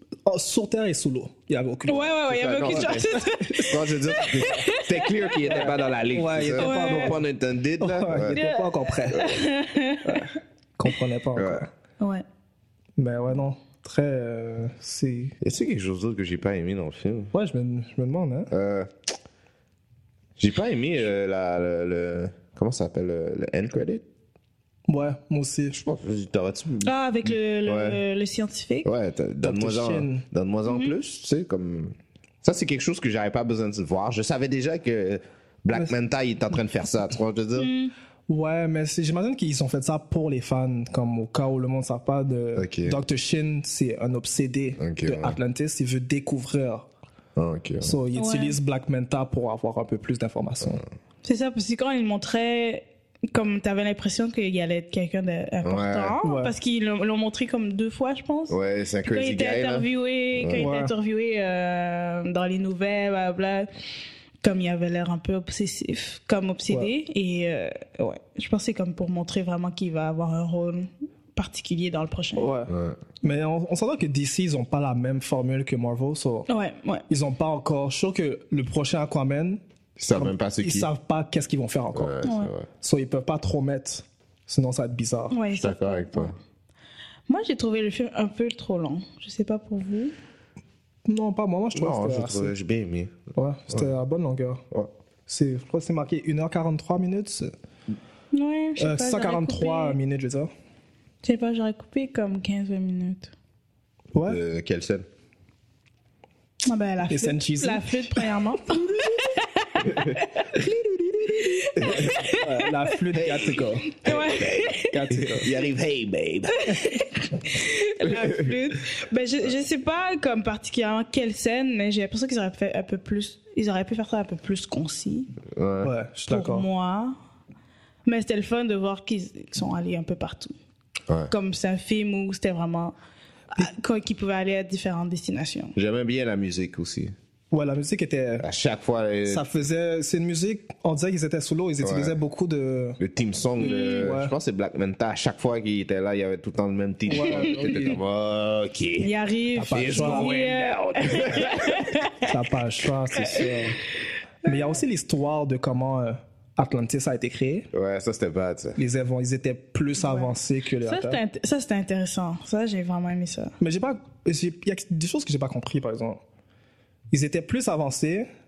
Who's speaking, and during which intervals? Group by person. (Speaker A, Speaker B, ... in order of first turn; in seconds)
Speaker A: 0.2-3.7, 5.5-7.2, 7.8-9.3, 10.0-11.7, 13.0-15.3, 17.3-18.5, 24.9-25.8, 29.4-30.2, 38.3-46.9, 47.8-50.8, 56.2-56.5, 60.5-60.9, 72.4-76.5, 77.1-79.6, 80.1-82.2, 82.8-85.4, 91.0-92.5, 93.3-94.6, 95.3-97.5, 98.8-100.5, 107.1-107.9, 110.6-114.0, 114.9-115.5, 125.8-126.6, 137.5-138.4, 139.3-143.0, 144.0-144.3, 147.1-148.0, 149.5-150.4, 152.3-153.8, 154.4-157.7, 158.8-161.2, 163.6-166.2, 167.1-168.3
Speaker B: 1.9-5.7, 6.6-7.2, 8.3-10.3, 26.8-28.9, 30.7-30.9, 37.6-37.9, 48.1-48.6, 51.2-63.7, 64.4-72.5, 76.5-77.0, 82.2-82.5, 85.3-86.3, 87.3-90.1, 98.3-100.0, 101.2-103.3, 106.6-110.3, 111.3-113.0, 114.0-115.0, 116.6-125.3, 126.3-127.2, 128.0-130.5, 131.3-132.9, 133.6-135.7, 143.6-144.1, 147.1-147.5, 149.0-152.3, 153.1-153.6, 160.0-163.5
Speaker C: 2.3-8.4, 11.3-11.7, 15.4-17.3, 18.5-18.9, 20.4-24.0, 25.7-28.0, 28.8-37.7, 42.5-43.0, 44.8-45.4, 47.4-48.0, 55.6-56.1, 58.5-59.9, 60.4-60.6, 72.7-73.0, 80.0-80.9, 81.9-82.7, 85.6-86.3, 91.7-93.2, 104.2-105.0, 111.8-112.2, 113.1-113.5, 114.0-116.5, 118.0-118.5, 125.5-125.9, 135.7-137.1, 138.4-139.4, 141.8-142.2, 143.0-149.1, 149.7-152.0, 157.7-158.8